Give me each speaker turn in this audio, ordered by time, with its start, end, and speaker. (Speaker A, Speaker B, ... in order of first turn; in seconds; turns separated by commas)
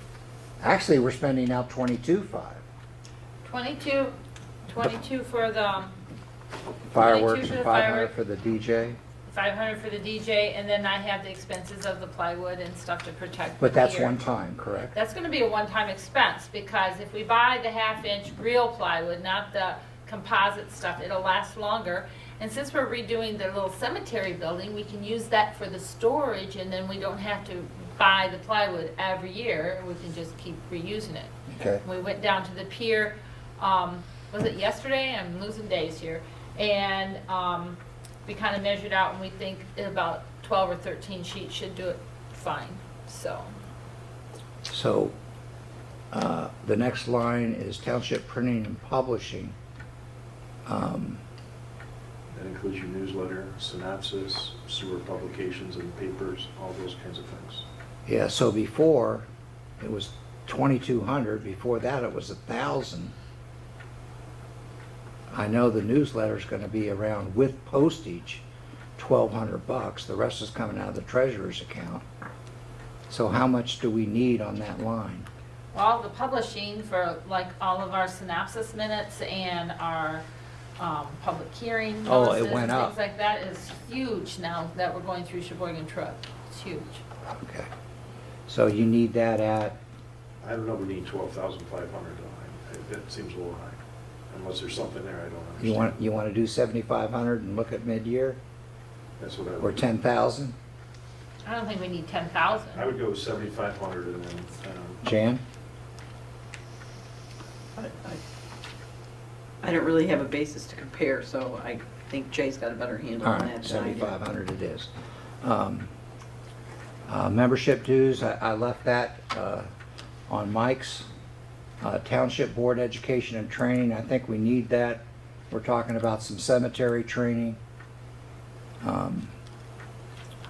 Speaker A: 0.6-2.6, Speaker B: 3.4-4.1, Speaker B: 4.7-6.0, Speaker A: 6.9-9.0, Speaker B: 7.0-8.1, Speaker B: 9.3-14.2, Speaker A: 13.6-14.9, Speaker B: 14.9-31.3, Speaker A: 31.5-31.8, Speaker B: 31.8-43.5, Speaker A: 44.7-45.1, Speaker A: 46.1-49.5, Speaker A: 50.6-51.2, Speaker C: 52.3-57.6, Speaker A: 58.0-59.2, Speaker A: 59.8-63.1, Speaker A: 65.3-68.4, Speaker A: 69.0-72.0, Speaker A: 73.1-75.3, Speaker B: 75.7-80.2, Speaker B: 80.8-87.0, Speaker A: 82.0-82.9, Speaker A: 87.3-87.7, Speaker A: 88.5-89.8, Speaker C: 90.4-93.8, Speaker C: 94.3-96.0, Speaker A: 95.6-98.4, Speaker C: 99.2-99.9, Speaker A: 99.6-100.5, Speaker B: 101.4-102.9, Speaker C: 102.7-105.0, Speaker A: 105.0-105.4, Speaker D: 107.8-108.2, Speaker D: 109.6-114.1, Speaker A: 113.2-114.9, Speaker A: 115.4-115.9, Speaker A: 117.1-119.7, Speaker A: 120.3-121.1, Speaker A: 121.8-127.6, Speaker A: 128.8-129.3